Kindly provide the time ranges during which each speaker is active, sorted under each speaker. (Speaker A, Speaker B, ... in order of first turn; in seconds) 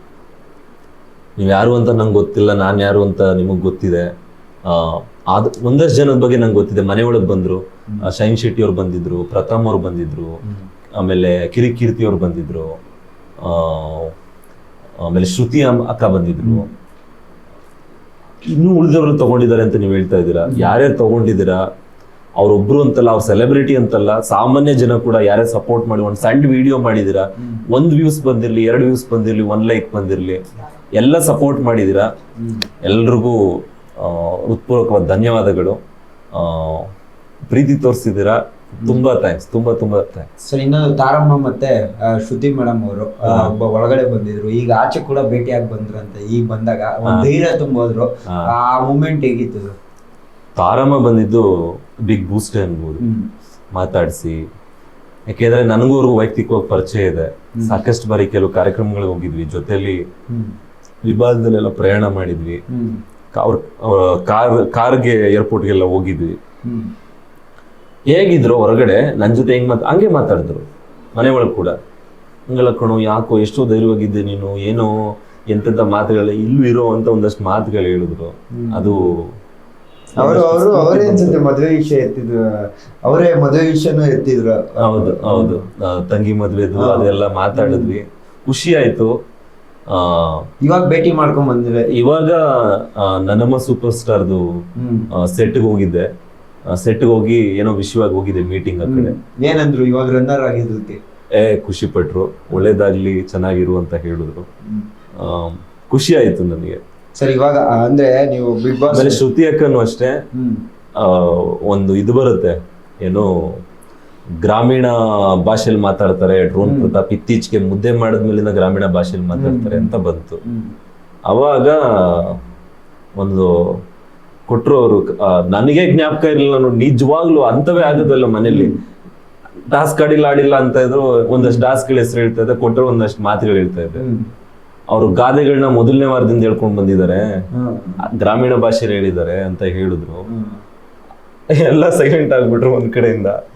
Speaker A: 1.4-4.1, 4.7-10.4, 11.0-12.8, 13.4-14.1, 15.0-16.7, 18.4-21.6, 22.4-30.4, 31.0-32.1, 32.8-35.8, 36.3-36.9, 37.5-40.3, 43.2-43.5, 50.6-51.5, 52.1-53.0, 53.7-54.4, 55.3-60.1, 61.0-62.6, 63.3-66.4, 68.1-70.6, 71.2-71.8, 72.5-75.0, 75.5-79.3, 80.2-81.4, 84.8-89.1, 89.9-90.5, 91.9-94.5, 95.1-96.1, 96.7-99.1, 101.3-104.5, 105.2-106.8, 108.9-110.2, 111.0-113.6, 114.4-120.4, 121.3-122.4, 123.2-123.8, 124.5-128.7, 129.7-134.0, 134.9-137.4, 138.0-140.3, 141.5-143.4
Speaker B: 20.5-20.7, 27.4-27.6, 32.4-32.7, 40.4-49.8, 53.0-53.3, 60.3-60.5, 62.7-63.0, 66.6-66.9, 78.5-79.0, 80.2-85.6, 86.8-88.0, 90.6-91.9, 94.8-95.1, 98.9-101.0, 107.2-109.2, 110.3-110.6, 116.6-117.0, 119.3-120.7, 127.8-128.8, 131.4-131.7, 134.0-134.3, 137.5-138.0, 140.3-140.6